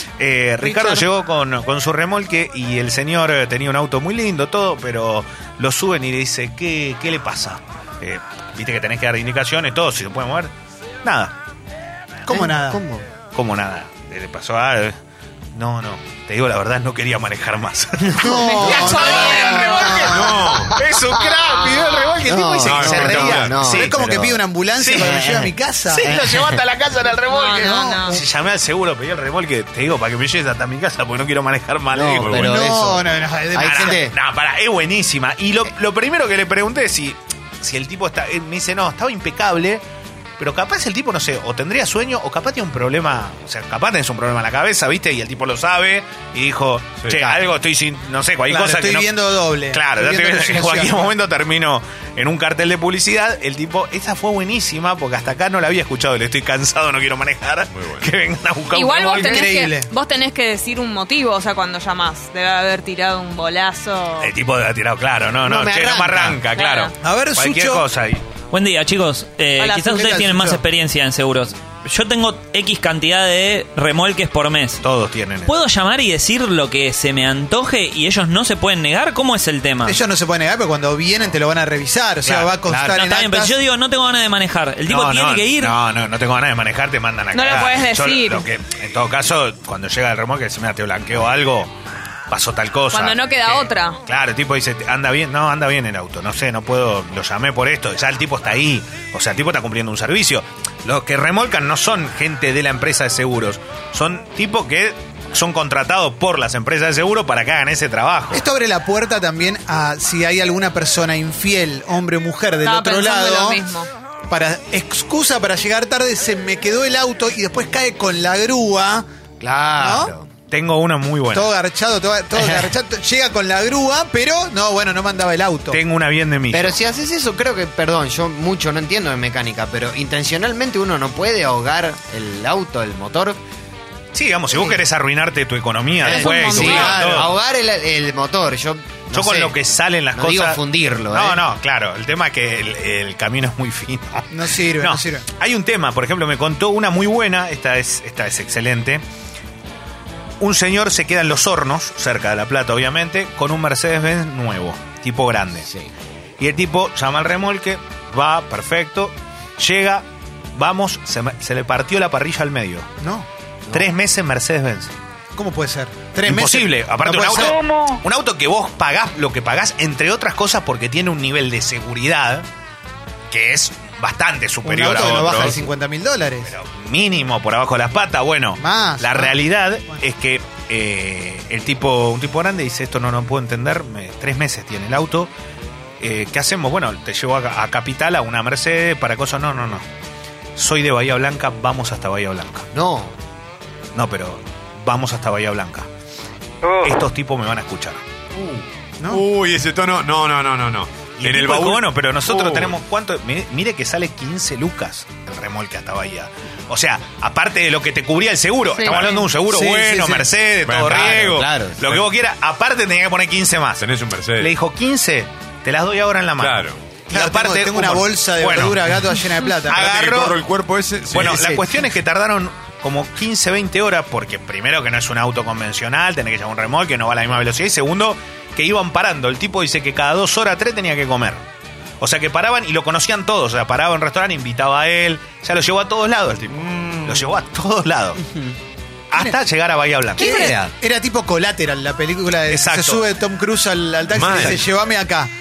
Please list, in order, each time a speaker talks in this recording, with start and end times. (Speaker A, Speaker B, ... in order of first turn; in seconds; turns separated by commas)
Speaker A: 0.2-10.5, Speaker B: 0.7-1.0, Speaker A: 11.0-11.3, Speaker B: 12.3-12.8, Speaker C: 12.3-13.1, Speaker A: 13.3-14.9, Speaker A: 15.5-24.0, Speaker C: 18.0-19.3, Speaker B: 18.2-20.5, Speaker D: 18.4-20.1, Speaker E: 20.1-20.8, Speaker C: 21.3-26.6, Speaker E: 22.6-23.7, Speaker B: 23.7-26.1, Speaker A: 24.8-32.7, Speaker D: 27.3-28.2, Speaker B: 27.6-28.2, Speaker C: 31.9-34.1, Speaker E: 32.1-32.6, Speaker B: 32.4-34.1, Speaker A: 33.6-39.8, Speaker A: 40.4-49.1, Speaker E: 47.0-47.3, Speaker B: 48.5-51.1, Speaker A: 49.7-59.5, Speaker E: 57.7-58.1, Speaker D: 58.7-64.3, Speaker B: 59.2-59.9, Speaker A: 64.2-68.2, Speaker C: 65.4-66.4, Speaker D: 66.5-66.9, Speaker B: 67.0-67.8, Speaker F: 68.5-74.8, Speaker D: 69.6-69.9, Speaker B: 69.8-70.6, Speaker A: 74.8-75.5, Speaker F: 75.5-80.0, Speaker B: 79.8-83.5, Speaker A: 82.2-82.5, Speaker F: 82.7-85.7, Speaker A: 84.9-91.7, Speaker D: 87.3-88.5, Speaker A: 92.3-108.4, Speaker D: 92.9-94.0, Speaker B: 108.3-113.6, Speaker D: 112.6-113.9, Speaker B: 114.3-119.0, Speaker C: 119.4-120.3, Speaker B: 119.8-120.1, Speaker A: 120.5-121.5, Speaker B: 121.3-125.8, Speaker C: 122.3-122.7, Speaker A: 125.7-126.8, Speaker C: 126.5-133.4, Speaker A: 134.1-137.3, Speaker C: 134.5-134.8, Speaker C: 136.0-139.6, Speaker D: 136.0-137.0, Speaker B: 136.5-137.3, Speaker A: 139.1-149.0, Speaker C: 140.2-141.4, Speaker B: 144.3-145.2, Speaker A: 150.4-155.7, Speaker C: 155.7-155.9, Speaker A: 156.4-162.9, Speaker B: 163.0-163.3, Speaker A: 163.7-164.9, Speaker B: 165.3-168.0, Speaker A: 166.2-172.4, Speaker A: 173.3-175.6, Speaker B: 174.6-176.5, Speaker E: 174.8-175.5, Speaker A: 176.4-185.3, Speaker B: 178.6-180.0, Speaker A: 186.0-189.8, Speaker A: 190.6-192.7, Speaker C: 192.7-193.1, Speaker A: 193.9-195.9, Speaker A: 196.8-198.0, Speaker E: 198.3-202.8, Speaker A: 201.2-213.8, Speaker D: 208.8-209.2, Speaker E: 208.8-209.3, Speaker B: 209.4-210.3, Speaker E: 210.6-212.0, Speaker C: 211.0-211.8, Speaker E: 213.8-214.5, Speaker A: 214.4-218.8, Speaker E: 216.4-216.8, Speaker B: 217.1-219.9, Speaker A: 219.7-220.4, Speaker E: 219.7-221.7, Speaker A: 221.1-231.4, Speaker A: 232.0-238.2, Speaker E: 236.6-237.4, Speaker A: 239.1-240.6, Speaker B: 240.2-245.3, Speaker D: 240.2-240.6, Speaker A: 242.5-243.0, Speaker E: 244.1-244.7